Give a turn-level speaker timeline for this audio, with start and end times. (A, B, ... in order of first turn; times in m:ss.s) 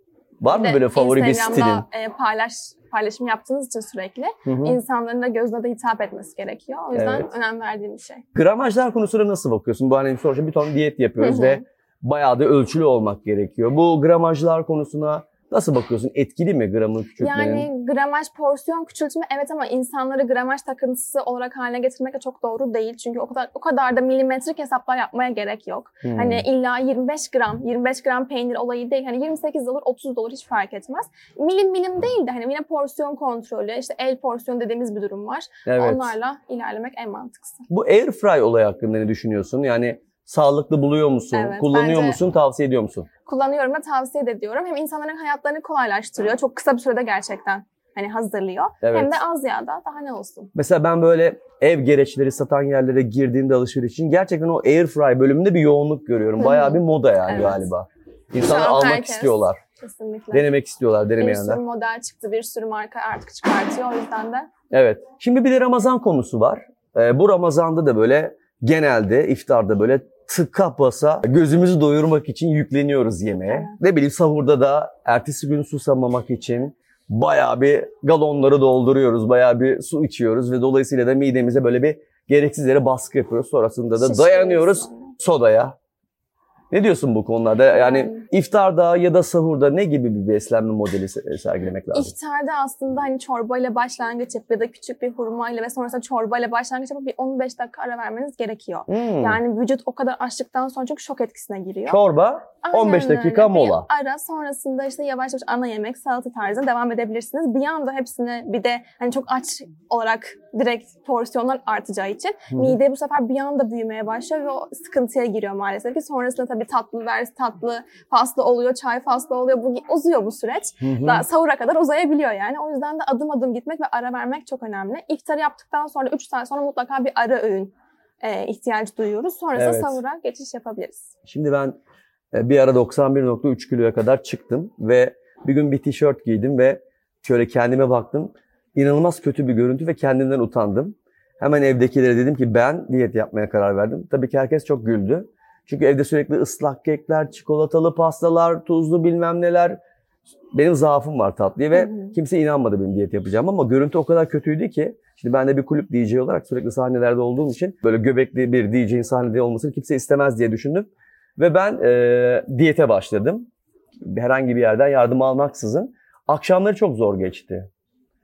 0:00.4-0:01.8 A
0:00.5-0:08.2 B
0:04.4-0:04.8 A
0:06.9-0:07.3 A
0:08.4-0:17.7 A
0:11.2-0:11.6 B
0:17.2-0:37.6 B
0:26.0-0:26.4 A
0:35.6-0:36.1 A
0:37.7-0:43.1 A
0:41.3-0:42.2 B
0:43.2-0:50.5 B
0:48.8-0:49.2 A
0:50.5-0:59.6 A
0:56.4-0:57.7 B
0:58.4-1:00.5 B
1:00.3-1:01.6 A
1:01.2-1:04.5 B
1:04.7-1:25.7 A
1:13.5-1:13.8 B
1:24.0-1:25.1 B
1:26.7-1:32.1 A
1:27.7-1:28.2 B
1:31.9-1:42.0 B
1:38.9-1:39.4 A
1:41.9-1:43.9 A
1:42.6-2:11.1 B
1:52.5-1:52.8 A
2:00.8-2:01.2 A
2:09.5-2:10.0 A
2:11.2-2:11.8 A
2:12.3-2:29.8 A
2:30.5-2:43.5 A
2:31.7-2:32.1 B
2:44.0-2:47.7 A